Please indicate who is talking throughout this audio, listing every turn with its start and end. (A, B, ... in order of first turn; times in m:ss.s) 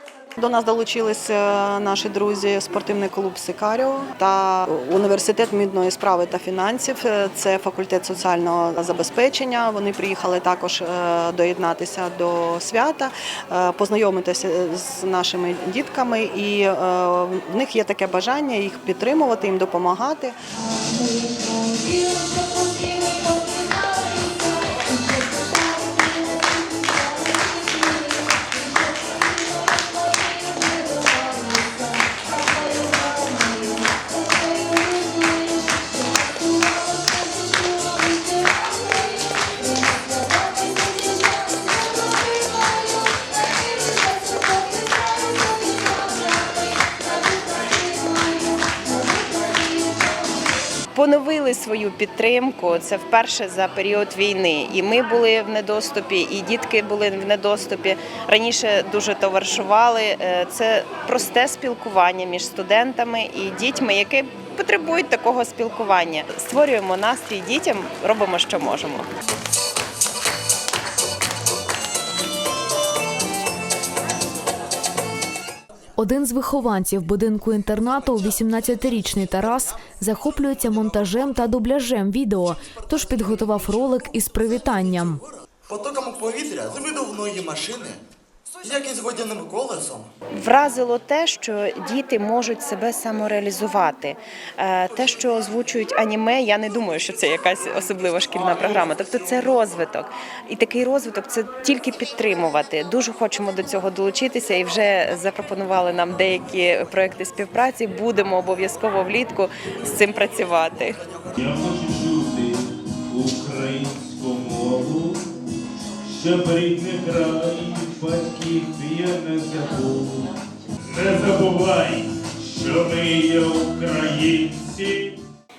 0:00.4-0:20.4 A
0:50.9-1:09.1 B
1:16.0-1:25.2 C
1:25.7-1:28.0 D
1:28.6-1:30.1 D
1:30.4-1:51.0 B
1:51.4-1:55.2 E
1:56.1-2:05.2 E